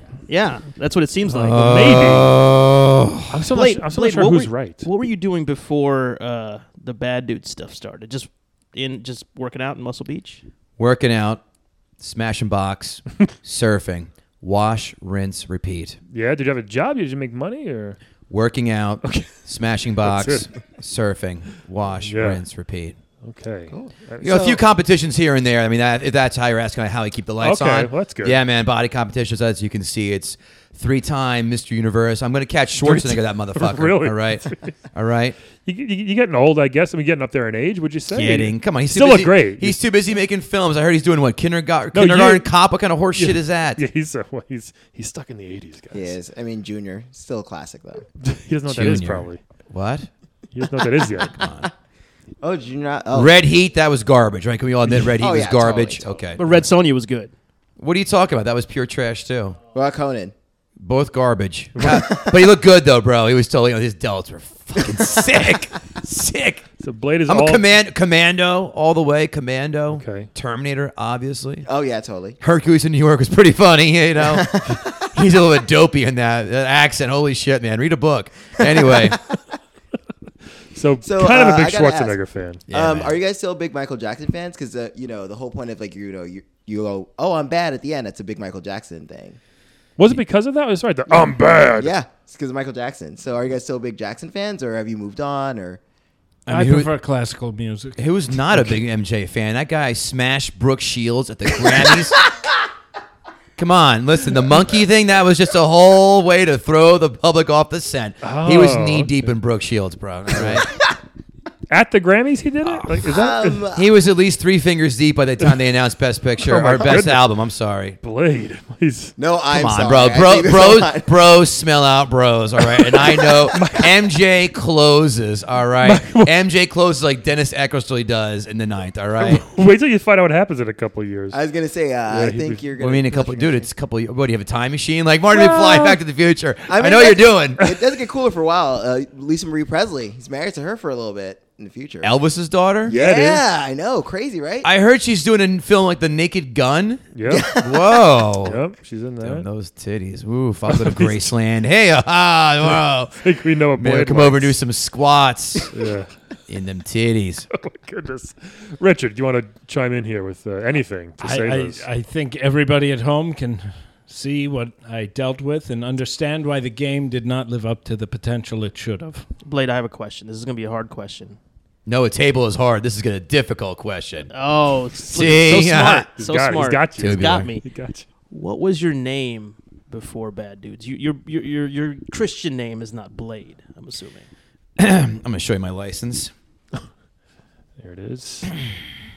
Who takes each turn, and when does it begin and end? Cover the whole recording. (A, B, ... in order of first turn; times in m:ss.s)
0:00.3-0:01.8 A
0:01.3-0:03.5 B
0:01.6-0:02.3 C
0:03.3-0:04.8 C
0:03.5-0:10.4 A
0:10.8-0:11.4 B
0:12.0-0:16.0 B
0:16.1-0:18.0 C
0:18.3-0:23.0 B
0:19.0-0:19.3 C
0:20.0-0:20.5 C
0:22.0-0:22.4 C
0:23.2-0:24.5 C
0:23.7-0:24.6 D
0:24.2-0:35.4 B
0:27.4-0:28.4 C
0:32.8-0:34.7 C
0:35.6-0:39.8 C
0:38.1-0:43.8 B
0:41.9-0:42.5 C
0:43.1-0:46.2 C
0:45.9-0:48.0 D
0:48.2-0:49.4 C
0:48.7-0:50.1 B
0:50.5-0:51.4 C
0:51.3-0:51.7 B
0:52.4-0:53.3 D
0:53.1-0:56.5 B
0:55.1-0:56.2 D
0:56.4-0:57.3 A
0:57.8-0:59.6 B
0:59.7-1:00.3 D
1:00.8-1:06.6 B
1:06.8-1:07.6 C
1:07.3-1:11.7 B
1:09.9-1:10.3 C
1:11.6-1:12.4 D
1:12.4-1:19.2 B
1:14.2-1:15.0 D
1:20.7-1:22.6 C
1:21.0-1:22.2 D
1:22.7-1:23.2 B
1:22.7-1:29.4 D
1:30.0-1:31.9 C
1:31.1-1:35.8 D
1:36.5-1:36.9 B
1:36.5-1:38.7 E
1:38.0-1:42.2 B
1:43.6-1:50.7 B
1:48.2-1:49.3 C
1:51.7-1:53.6 C
1:52.6-1:53.0 B
1:53.1-1:53.8 D
1:53.7-1:58.0 B
1:56.4-1:57.2 C
1:58.0-1:59.2 C
1:59.2-2:01.1 D
1:59.5-2:09.4 B
2:03.5-2:03.9 C
2:05.8-2:06.3 C
2:09.2-2:11.4 C
2:11.3-2:13.7 D
2:12.1-2:12.6 C
2:12.8-2:17.6 B
2:15.3-2:16.0 C
2:16.7-2:22.1 D
2:22.0-2:22.9 B
2:22.8-2:24.7 D
2:22.9-2:23.4 C
2:24.6-2:28.6 B
2:27.1-2:27.5 C
2:27.3-2:28.0 D
2:28.4-2:29.4 C
2:29.2-2:35.7 B
2:30.7-2:31.2 C
2:33.2-2:34.5 C
2:35.7-2:36.1 C
2:36.5-2:37.5 B
2:37.5-2:41.8 C
2:41.2-2:49.3 E
2:49.4-2:51.4 A
2:51.8-2:54.3 B
2:54.3-2:57.6 A
2:55.0-2:56.1 B
2:56.2-2:58.0 C
2:57.0-2:57.5 B
2:58.3-3:04.3 A
3:04.8-3:06.3 B
3:07.8-3:08.5 C